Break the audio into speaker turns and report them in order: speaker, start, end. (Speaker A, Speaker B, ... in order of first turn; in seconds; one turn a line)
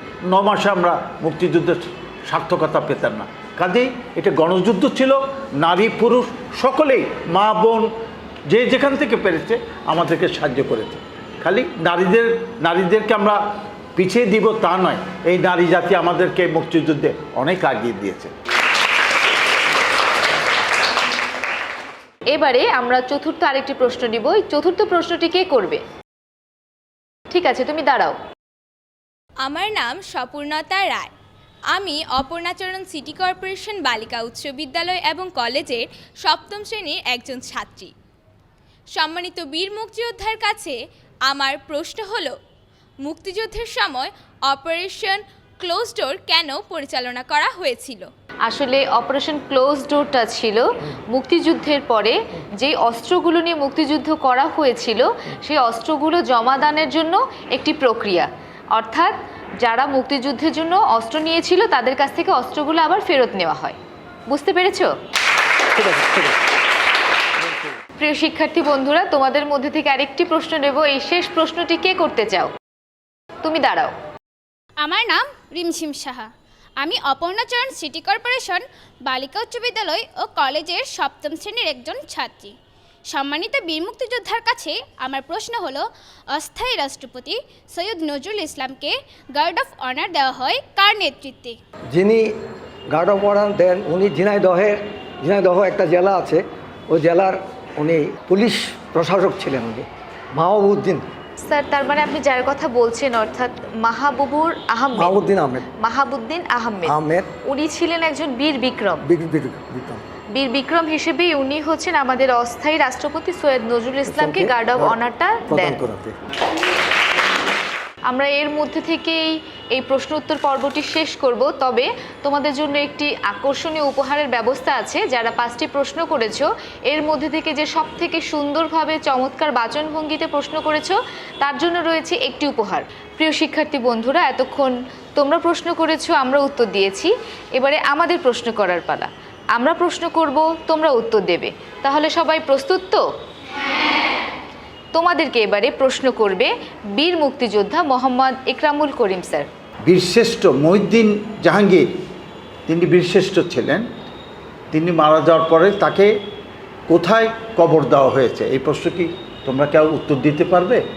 Speaker A: 0.2-7.9
Speaker A: 8.5-13.4
Speaker A: 13.9-18.3
Speaker B: 22.3-25.8
Speaker B: 27.3-28.1
Speaker C: 29.4-31.1
Speaker C: 31.7-37.9
Speaker C: 38.9-40.8
Speaker C: 41.3-42.4
Speaker C: 43.0-48.1
Speaker B: 48.5-63.8
Speaker B: 64.3-64.9
Speaker D: 65.7-66.4
Speaker D: 67.4-67.7
Speaker B: 68.0-72.5
Speaker B: 73.4-73.9
Speaker E: 74.8-82.5
Speaker E: 83.1-91.6
Speaker D: 91.9-92.3
Speaker D: 92.9-101.1
Speaker B: 101.4-105.2
Speaker D: 105.0-105.6
Speaker B: 105.8-109.0
Speaker D: 106.8-107.3
Speaker D: 109.0-110.0
Speaker B: 110.3-115.8
Speaker D: 114.1-115.0
Speaker D: 115.5-116.2
Speaker B: 118.1-143.0
Speaker B: 144.9-149.5
Speaker A: 149.8-151.9
Speaker A: 152.7-153.8
Speaker A: 154.7-156.1
Speaker A: 156.9-160.8